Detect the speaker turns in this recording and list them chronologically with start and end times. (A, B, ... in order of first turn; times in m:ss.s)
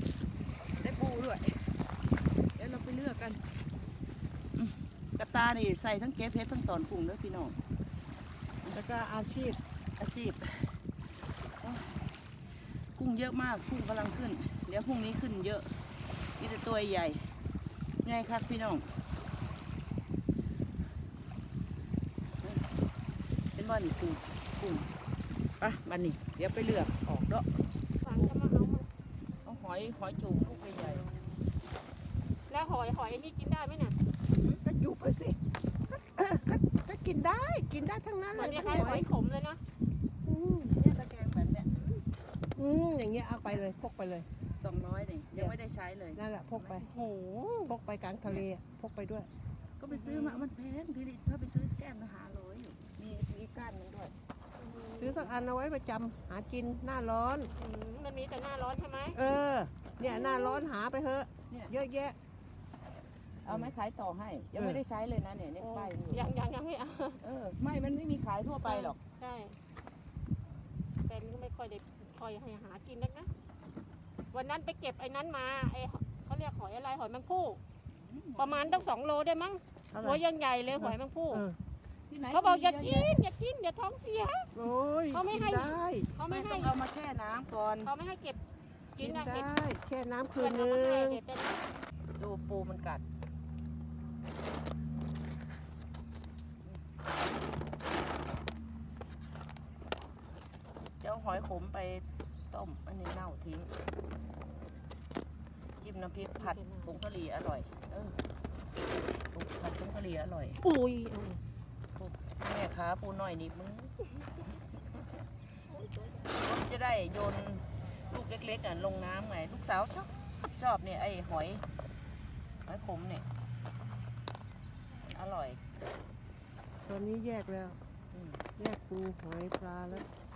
0:00.8-0:01.6 A
0:02.6-0:03.4 A
0:04.6-0:07.6 A
0:08.7-0:09.6 B
0:10.0-0:10.7 A
0:11.6-0:12.0 A
0:13.0-0:15.7 A
0:16.4-0:17.3 A
0:18.0-0:18.9 A
0:23.6-0:24.9 A
0:25.6-0:27.5 A
0:28.0-0:28.9 C
0:28.1-0:28.4 A
0:29.4-0:31.1 A
0:32.5-0:34.0 C
0:34.4-0:34.6 A
0:34.6-0:35.4 B
0:35.9-0:39.1 B
0:38.4-0:39.6 C
0:40.2-0:40.8 B
0:40.7-0:42.0 A
0:42.6-0:44.3 B
0:44.6-0:46.8 A
0:46.2-0:46.9 B
0:46.8-0:47.7 C
0:47.6-0:49.3 B
0:49.8-0:54.1 A
0:49.9-0:50.4 C
0:54.6-0:55.2 C
0:55.0-0:57.5 B
0:57.6-0:59.2 C
0:59.1-1:02.2 B
1:00.1-1:00.6 C
1:03.4-1:06.2 A
1:04.6-1:04.8 B
1:05.7-1:07.2 C
1:07.2-1:09.0 A
1:08.7-1:09.6 C
1:11.0-1:13.3 C
1:14.3-1:17.6 C
1:17.9-1:18.9 A
1:18.4-1:21.4 C
1:19.9-1:21.6 B
1:22.1-1:23.2 A
1:22.3-1:24.5 C
1:24.5-1:26.1 B
1:25.1-1:26.7 C
1:26.3-1:27.9 A
1:27.8-1:28.4 C
1:29.0-1:29.5 C
1:29.0-1:31.2 B
1:30.3-1:31.7 C
1:32.2-1:33.0 A
1:41.0-1:43.7 A
1:45.8-1:48.2 A
1:46.4-1:46.9 C
1:49.3-1:50.6 A
1:50.6-1:51.4 C
1:52.0-1:54.0 A
1:55.7-1:56.1 C
1:56.3-2:01.6 A
2:02.7-2:03.3 A
2:05.0-2:05.6 A
2:06.8-2:07.8 B
2:08.1-2:08.4 A
2:08.6-2:10.1 B